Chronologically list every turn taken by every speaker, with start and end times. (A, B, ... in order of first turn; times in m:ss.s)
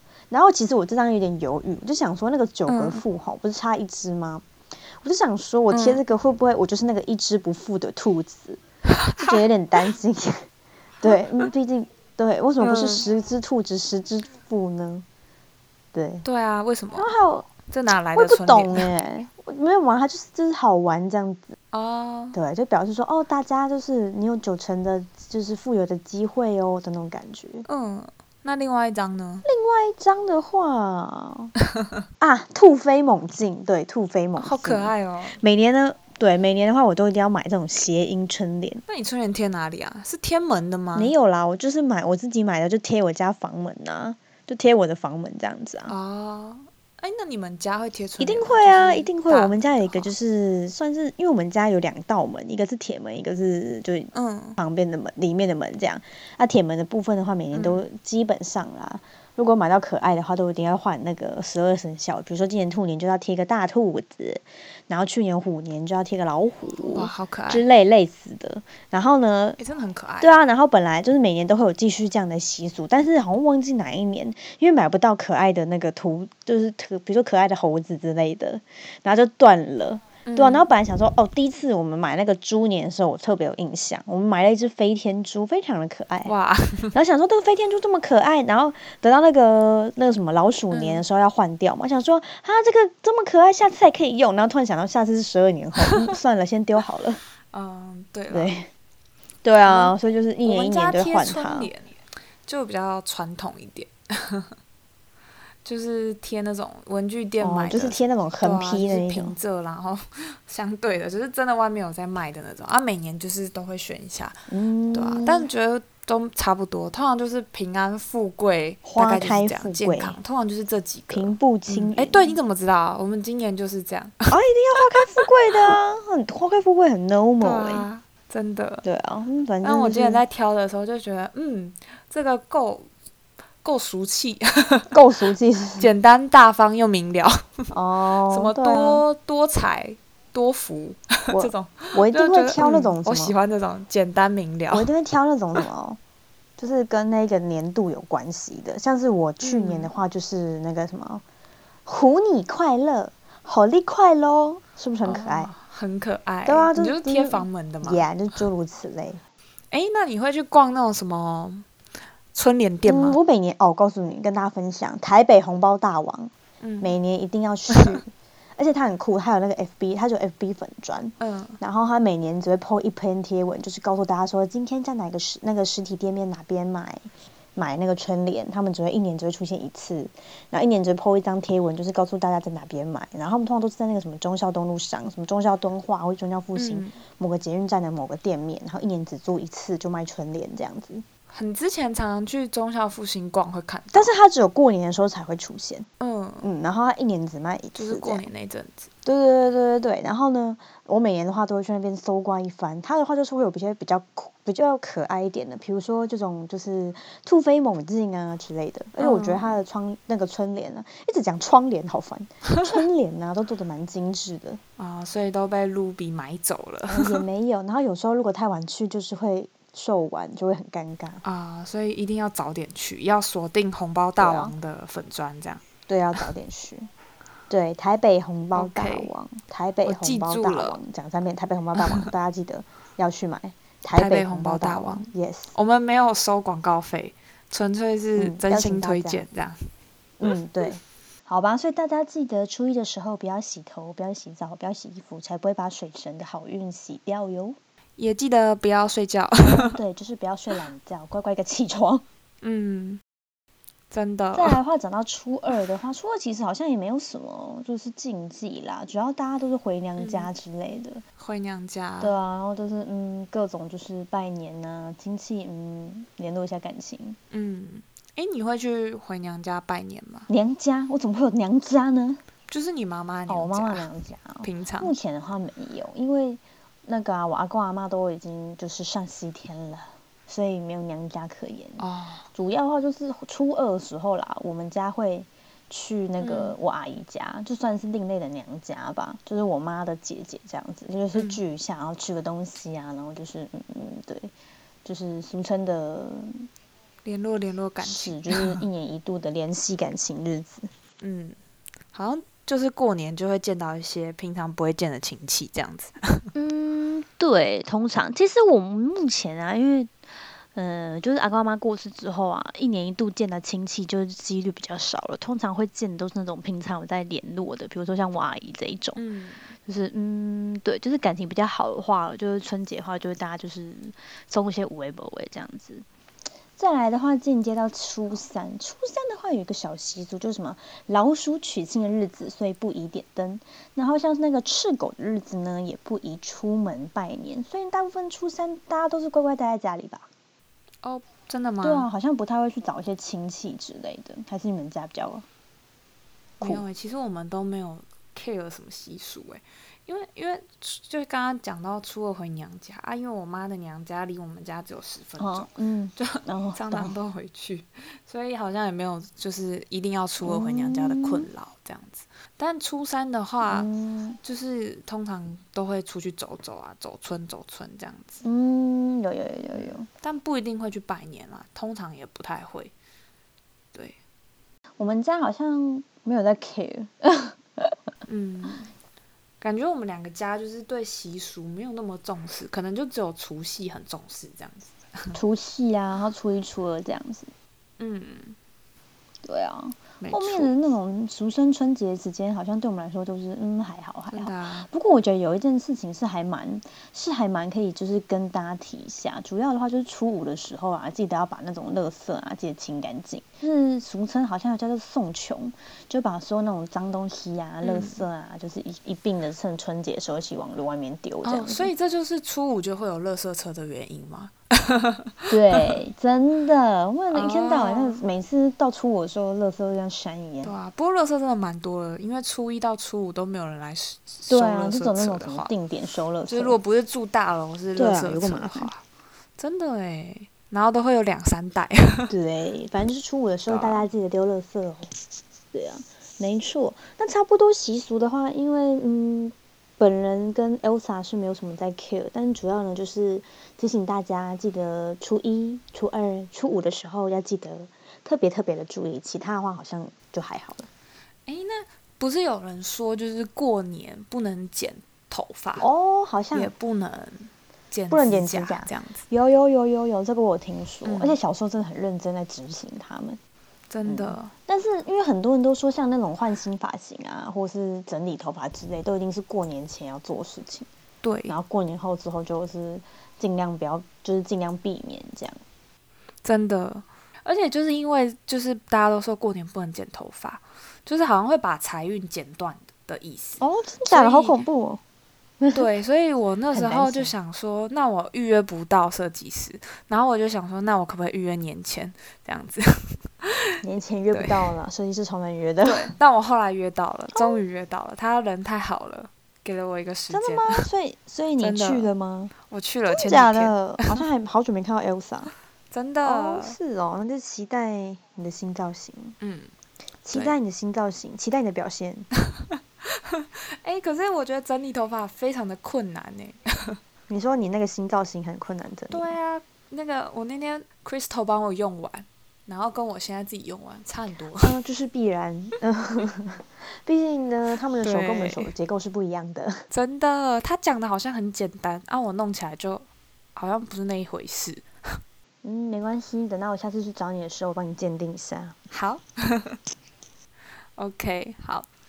0:00.3-0:04.4 A
0:02.7-0:03.0 B
0:05.0-0:08.6 A
0:05.7-0:06.0 B
0:08.9-0:09.3 B
0:09.2-0:10.5 A
0:11.0-0:15.0 A
0:12.6-0:13.0 B
0:15.9-0:16.2 A
0:16.2-0:18.9 B
0:16.9-0:17.5 A
0:18.1-0:21.6 A
0:21.7-0:22.4 B
0:22.3-0:27.6 A
0:27.7-0:29.4 B
0:29.4-0:31.5 A
0:32.2-0:38.8 A
0:34.4-0:35.4 B
0:38.9-0:41.1 B
0:40.9-0:45.9 A
0:45.9-0:50.1 B
0:48.2-1:09.6 A
0:54.1-0:54.6 B
0:57.5-0:57.8 B
1:06.9-1:07.6 B
1:09.6-1:10.3 B
1:10.2-1:26.3 A
1:20.2-1:20.7 B
1:26.2-1:26.9 B
1:26.9-1:37.2 A
1:30.7-1:31.0 B
1:35.8-1:36.1 B
1:37.5-1:38.5 B
1:38.3-1:38.7 A
1:39.4-1:41.7 A
1:39.6-1:44.5 B
1:45.6-2:04.3 B
1:47.4-1:49.3 A
1:54.5-1:55.5 A
1:58.8-2:00.2 A
2:01.1-2:02.4 A
2:04.3-2:07.9 A
2:05.0-2:05.3 B
2:07.4-2:08.8 B
2:08.8-2:10.2 A
2:09.6-2:12.9 B
2:13.6-2:14.9 B
2:14.9-2:15.9 A
2:15.8-2:17.7 B
2:17.7-2:19.0 A
2:18.3-2:24.9 B
2:21.3-2:23.3 A
2:24.7-2:26.0 A
2:26.6-2:31.2 A
2:29.4-2:29.9 B
2:31.8-2:35.5 A
2:35.0-2:38.0 B
2:36.4-2:39.2 A
2:39.7-2:41.7 B
2:42.3-2:43.2 B
2:42.9-3:11.0 A
2:46.6-2:46.9 B
2:47.7-2:48.0 B
2:51.2-2:51.6 B
3:06.6-3:07.0 B
3:11.3-3:14.1 B
3:13.9-3:15.9 A
3:16.0-3:16.5 B
3:16.4-3:18.2 A
3:17.7-3:18.9 B
3:19.0-3:34.6 A
3:29.0-3:29.6 B
3:34.8-3:37.2 B
3:36.9-3:41.2 A
3:41.2-3:45.6 B
3:44.2-3:44.5 A
3:45.9-3:46.9 A
3:47.5-3:55.5 A
3:48.5-3:49.1 B
3:49.8-3:50.8 B
3:51.8-3:52.1 B
3:54.0-3:59.6 B
3:58.2-3:59.2 A
4:00.2-4:07.6 A
4:08.0-4:09.8 B
4:09.4-4:12.0 A
4:12.4-4:13.0 B
4:13.9-4:14.6 B
4:14.4-4:21.0 A
4:20.0-4:20.3 B
4:21.2-4:22.1 B
4:22.0-4:27.2 A
4:27.3-4:30.3 B
4:30.3-4:32.2 A
4:32.5-4:33.8 B
4:33.3-4:41.8 A
4:34.4-4:34.9 B
4:41.8-4:42.2 B
4:42.3-4:54.3 A
4:46.2-4:46.6 B
4:51.1-4:51.4 B
4:54.8-4:56.5 A
4:57.0-4:58.6 B
4:57.8-5:00.7 A
5:01.0-5:01.4 B
5:01.9-5:06.2 B
5:06.3-5:09.9 A
5:10.5-5:19.0 A
5:19.0-5:19.5 B
5:19.6-5:25.8 A
5:26.6-5:40.1 A
5:40.8-5:41.9 B
5:41.6-5:45.2 A
5:46.4-6:03.7 B
5:55.2-5:56.9 A
6:00.2-6:01.3 A
6:03.4-6:04.2 A
6:04.2-6:08.2 B
6:08.2-6:09.9 A
6:09.5-6:12.7 B
6:14.8-6:17.8 A
6:18.1-6:18.7 B
6:19.4-6:25.2 B
6:25.1-6:27.3 A
6:27.8-6:28.4 B
6:29.2-6:51.7 A
6:30.0-6:30.5 B
6:34.1-6:34.7 B
6:47.6-6:48.0 B
6:51.2-6:55.6 B
6:55.3-7:00.5 A
6:57.1-6:58.0 B
7:00.4-7:05.5 B
7:04.3-7:06.6 A
7:06.2-7:08.8 B
7:07.8-7:08.7 A
7:09.4-7:12.1 B
7:12.1-7:14.9 A
7:13.5-7:13.9 B
7:15.5-7:30.7 A
7:31.3-7:35.7 B
7:35.6-7:36.5 A
7:36.3-7:39.0 B
7:37.9-7:43.2 A
7:40.8-7:41.2 B
7:43.7-7:44.3 B
7:43.8-7:50.7 A
7:51.0-7:51.4 B
7:51.3-7:55.4 A
7:56.2-8:04.4 B
8:03.4-8:04.8 A
8:05.5-8:13.5 B
8:06.5-8:07.1 A
8:13.6-8:15.9 A
8:14.1-8:14.5 B
8:15.6-8:20.7 B
8:17.1-8:17.4 A
8:20.1-8:22.3 A
8:21.4-8:21.9 B
8:22.4-8:24.0 B
8:22.9-8:25.3 A
8:25.7-8:26.6 B
8:26.0-8:29.2 A
8:29.2-8:29.5 B
8:30.0-8:32.1 A
8:32.8-8:36.8 B
8:37.1-8:39.1 A
8:38.9-8:44.6 B
8:44.4-8:49.6 A
8:47.8-8:48.5 B
8:49.7-8:55.0 B
8:55.4-8:58.5 A
8:58.7-8:59.6 B
9:00.8-9:01.7 B